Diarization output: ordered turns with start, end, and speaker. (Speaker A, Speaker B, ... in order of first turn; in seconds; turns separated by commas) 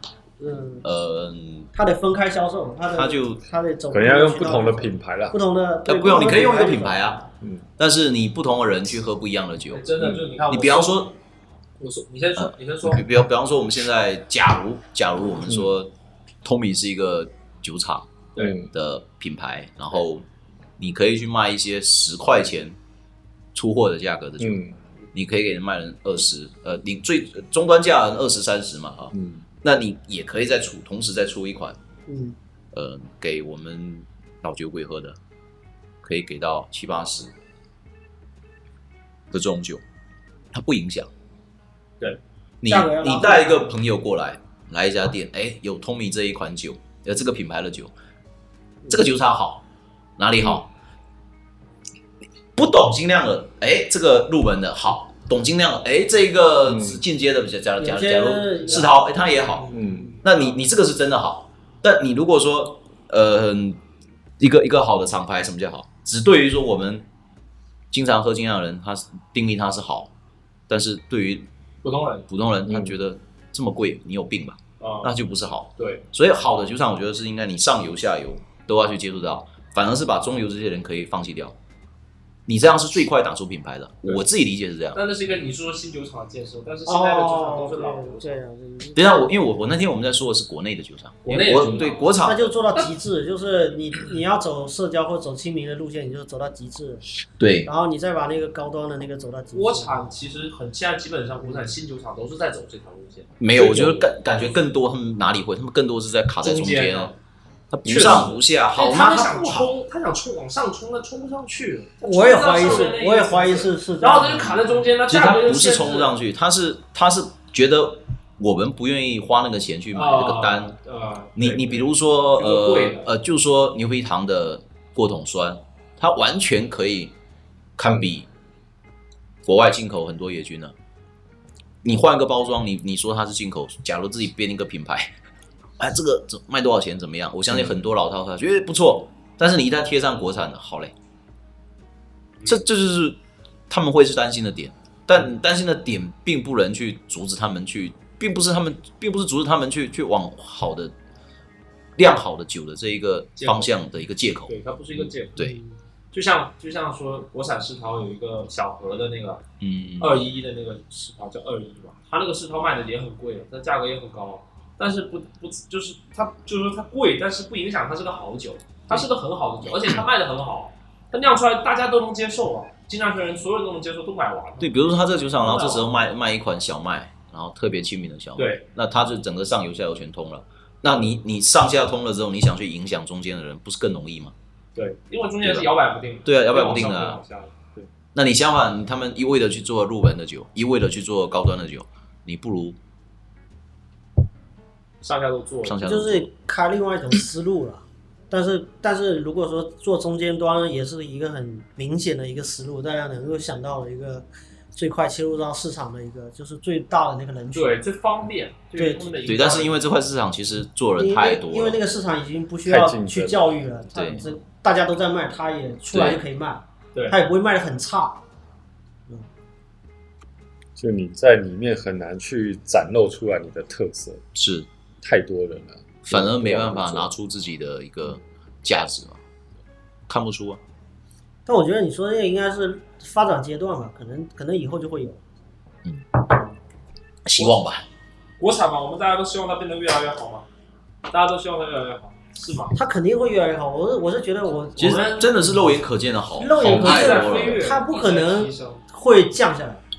Speaker A: 0.4-0.9, Speaker B: 0.8-1.7, Speaker A: 1.7-7.2, Speaker B: 2.9-3.4, Speaker C: 3.9-5.4, Speaker B: 5.9-7.2, Speaker B: 7.8-9.9, Speaker D: 9.7-11.1, Speaker B: 10.5-11.2, Speaker D: 11.8-13.1, Speaker B: 12.4-15.9, Speaker B: 16.4-18.1, Speaker C: 18.4-18.7, Speaker B: 18.7-20.3, Speaker B: 20.8-22.8, Speaker B: 23.5-24.6, Speaker C: 24.4-24.7, Speaker B: 25.1-31.8, Speaker C: 29.1-29.4, Speaker A: 32.1-32.4, Speaker B: 32.7-35.2, Speaker B: 36.0-37.3, Speaker B: 39.3-39.8, Speaker B: 40.5-41.1, Speaker B: 42.6-47.9, Speaker A: 42.7-43.7, Speaker B: 48.9-49.6, Speaker B: 50.2-50.7, Speaker B: 52.6-63.8, Speaker C: 56.7-57.0, Speaker A: 57.8-59.0, Speaker A: 59.6-60.2, Speaker C: 59.7-60.1, Speaker B: 64.4-67.1, Speaker B: 67.9-70.1, Speaker B: 70.7-71.5, Speaker D: 71.8-72.3, Speaker B: 72.3-81.6, Speaker C: 72.7-72.9, Speaker D: 74.8-75.1, Speaker D: 75.8-76.0, Speaker B: 82.5-85.0, Speaker D: 84.9-88.4, Speaker A: 86.9-89.2, Speaker B: 89.0-92.6, Speaker D: 91.2-92.1, Speaker A: 92.2-97.0, Speaker B: 97.4-97.7, Speaker A: 97.6-100.0, Speaker D: 99.5-104.0, Speaker B: 103.4-107.1, Speaker D: 106.4-107.2, Speaker B: 107.7-109.7, Speaker D: 107.9-116.2, Speaker A: 112.0-114.8, Speaker B: 115.1-120.8, Speaker D: 119.9-123.1, Speaker B: 121.4-127.1, Speaker B: 127.8-128.3, Speaker B: 129.5-130.7, Speaker B: 131.8-135.1, Speaker B: 135.8-140.9, Speaker B: 142.4-143.2, Speaker B: 143.7-150.9, Speaker B: 152.0-154.5, Speaker D: 153.4-153.7, Speaker D: 154.5-155.5, Speaker A: 155.4-155.8, Speaker D: 156.1-159.4, Speaker B: 159.6-160.2, Speaker D: 160.0-174.8, Speaker B: 174.6-184.3, Speaker D: 175.4-175.9, Speaker D: 178.4-178.6, Speaker D: 184.8-187.9, Speaker B: 185.4-185.7, Speaker B: 186.2-187.2, Speaker B: 188.1-192.8, Speaker D: 195.0-195.9, Speaker B: 195.6-196.3, Speaker A: 195.8-207.8, Speaker D: 207.5-209.8, Speaker A: 208.8-209.2, Speaker B: 209.2-211.8, Speaker A: 211.0-218.2, Speaker C: 212.7-213.6, Speaker B: 213.9-214.2, Speaker B: 215.9-216.2, Speaker C: 220.8-224.2, Speaker B: 224.3-224.7, Speaker C: 225.0-227.1, Speaker B: 226.1-229.2, Speaker B: 230.1-230.6, Speaker A: 231.5-235.2, Speaker B: 237.2-237.9, Speaker D: 238.4-240.5, Speaker D: 241.1-242.8, Speaker A: 242.8-245.0, Speaker D: 244.8-245.4, Speaker B: 244.8-247.7, Speaker A: 246.4-249.8, Speaker C: 246.6-247.0, Speaker D: 246.7-248.8